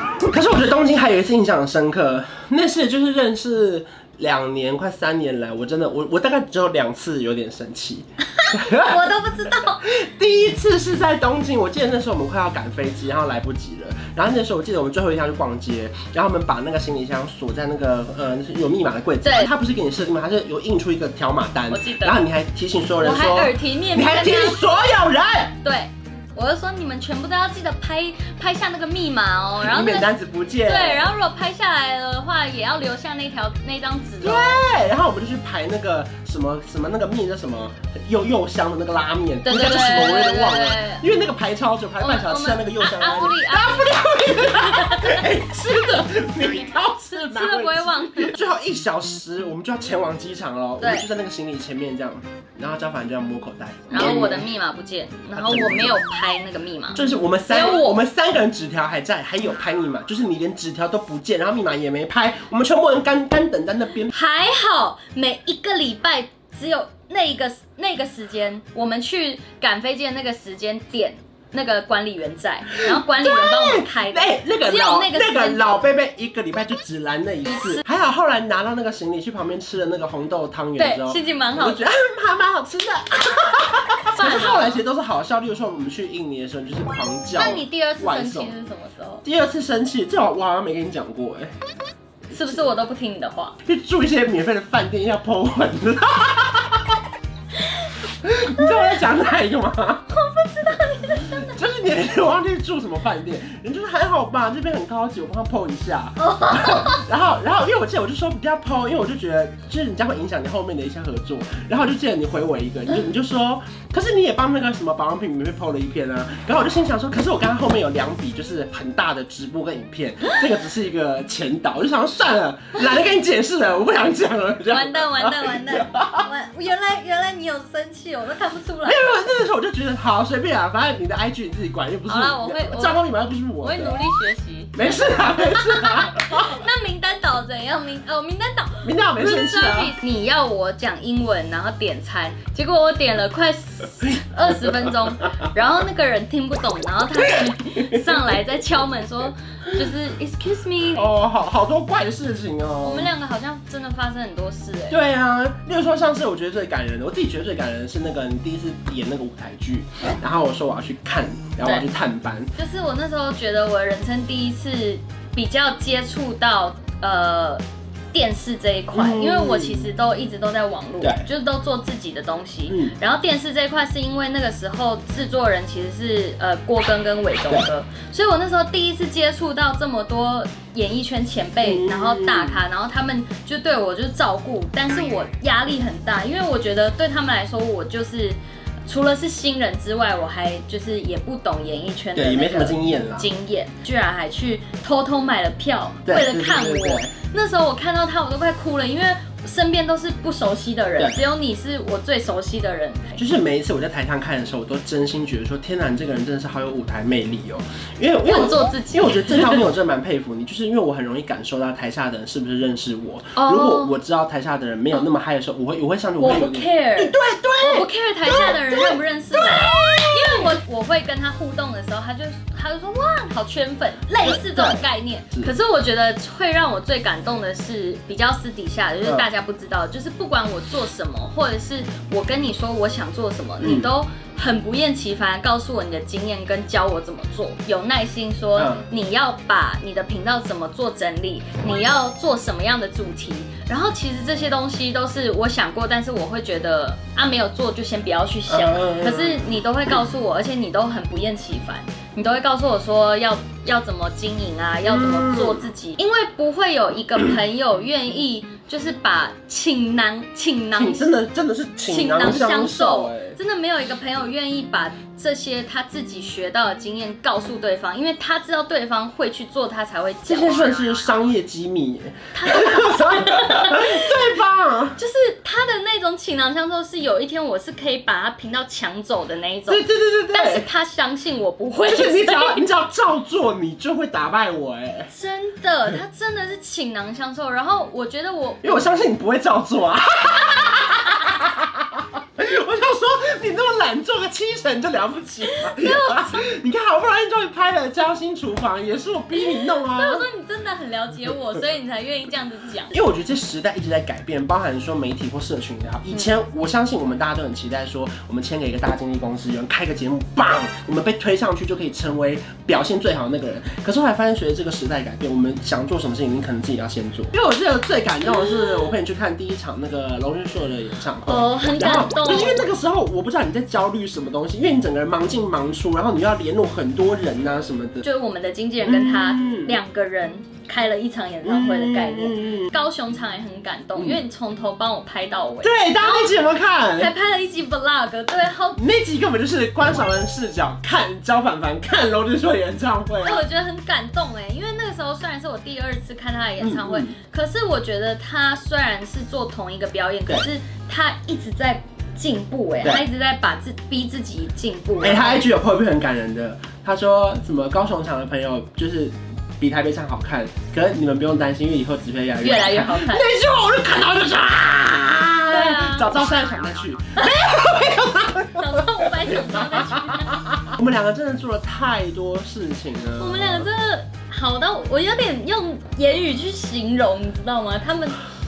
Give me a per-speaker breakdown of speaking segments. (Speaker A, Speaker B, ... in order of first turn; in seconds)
Speaker A: 0.2-9.0, 9.8-25.5, 29.6-31.1, 34.2-54.5, 55.4-56.0, 56.9-64.1, 72.8-88.5, 89.2-91.5, 93.6-97.0, 98.2-100.1, 101.2-126.3, 128.8-134.0, 134.7-136.5, 138.8-139.9, 150.9-153.1, 154.9-162.5, 168.9-169.9, 171.0-171.3, 172.7-172.9, 181.6-182.6, 192.1-193.3, 196.1-197.1, 203.2-220.5, 224.2-225.5, 233.6-233.9, 238.6-238.9, 248.5-249.4, 254.8-255.7, 260.7-263.4, 270.3-275.0, 279.7-280.7, 281.9-285.1, 288.6-300.2, 302.9-328.0, 328.8-329.8, 331.4-332.7, 333.9-334.2, 335.6-337.1, 338.8-343.4, 346.6-347.2, 355.0-373.7
Speaker B: 8.3-9.8, 19.2-19.5, 21.7-22.3, 23.0-24.7, 25.6-30.1, 30.6-34.6, 39.4-41.0, 42.0-46.0, 47.0-48.5, 50.8-51.1, 53.9-58.0, 64.1-75.9, 77.4-77.8, 80.8-81.8, 84.1-84.8, 87.3-89.2, 92.3-93.6, 100.1-101.5, 106.2-107.0, 124.7-129.1, 132.1-133.0, 133.6-151.1, 152.8-155.0, 162.6-203.2, 208.2-209.7, 213.3-213.9, 216.2-261.1, 261.9-271.2, 272.3-274.4, 275.0-282.6, 285.1-288.9, 295.4-296.4, 299.4-302.9, 318.4-318.8, 321.2-322.7, 328.0-338.8, 343.2-355.4, 362.4-363.3, 365.5-366.1, 367.1-367.7, 368.5-370.5, 373.2-378.2